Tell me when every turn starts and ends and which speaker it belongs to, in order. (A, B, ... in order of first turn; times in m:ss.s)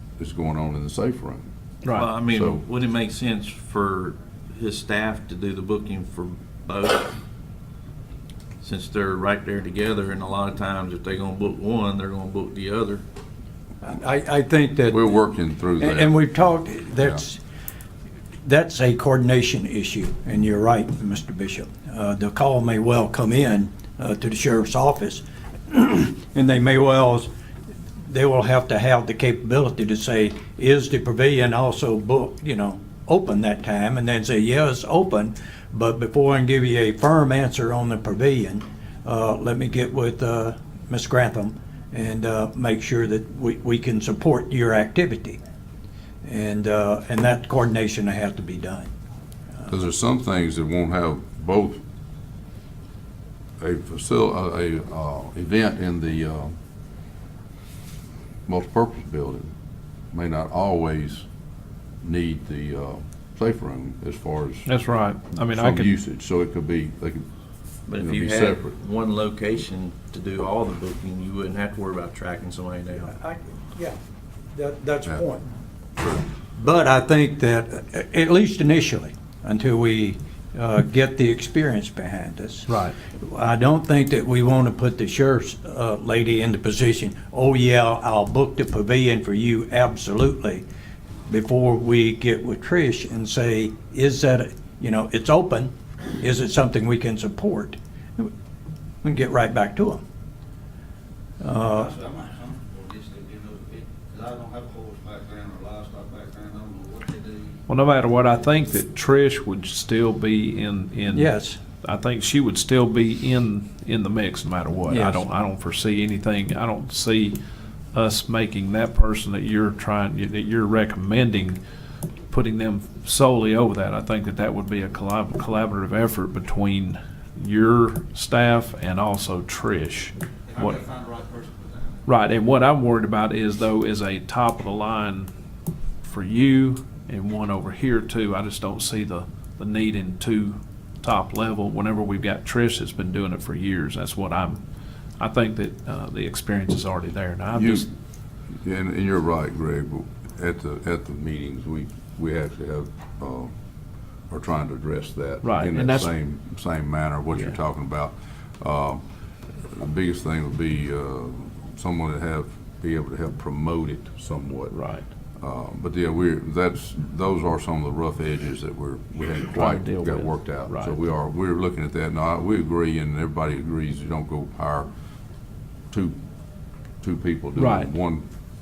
0:00.2-0:01.4 A
0:01.8-0:02.1 B
0:01.9-0:07.2 C
0:02.3-0:02.6 A
0:08.6-0:13.0 C
0:13.8-0:15.2 D
0:14.9-0:16.2 A
0:15.8-0:17.4 D
0:18.4-0:27.3 D
0:28.0-0:45.4 D
0:46.2-0:48.9 D
0:49.7-0:51.8 A
0:53.6-0:56.5 A
0:58.5-0:59.5 A
1:00.1-1:01.3 A
1:02.0-1:04.7 A
1:04.7-1:05.9 B
1:05.4-1:07.2 A
1:07.9-1:13.1 C
1:07.9-1:08.7 A
1:13.0-1:14.0 D
1:14.6-1:15.5 D
1:16.0-1:16.2 A
1:16.6-1:30.6 D
1:22.7-1:22.9 B
1:31.3-1:38.3 D
1:39.0-1:40.0 D
1:41.4-1:41.9 D
1:41.6-1:47.7 E
1:47.7-1:57.4 B
1:51.1-1:51.6 D
1:54.9-1:55.2 D
1:57.9-2:01.6 B
2:02.3-2:10.8 B
2:10.5-2:12.0 E
2:12.1-2:15.3 B
2:16.0-2:24.6 B
2:25.2-2:27.9 B
2:27.5-2:27.9 A
2:28.6-2:33.5 A
2:34.3-2:39.0 A
2:35.4-2:36.2 B
2:39.6-2:44.8 A
2:44.7-2:45.1 B
2:45.4-2:54.9 A
2:49.5-2:51.0 B
2:55.9-2:56.2 A
2:57.0-2:58.3 A
2:57.6-2:57.9 B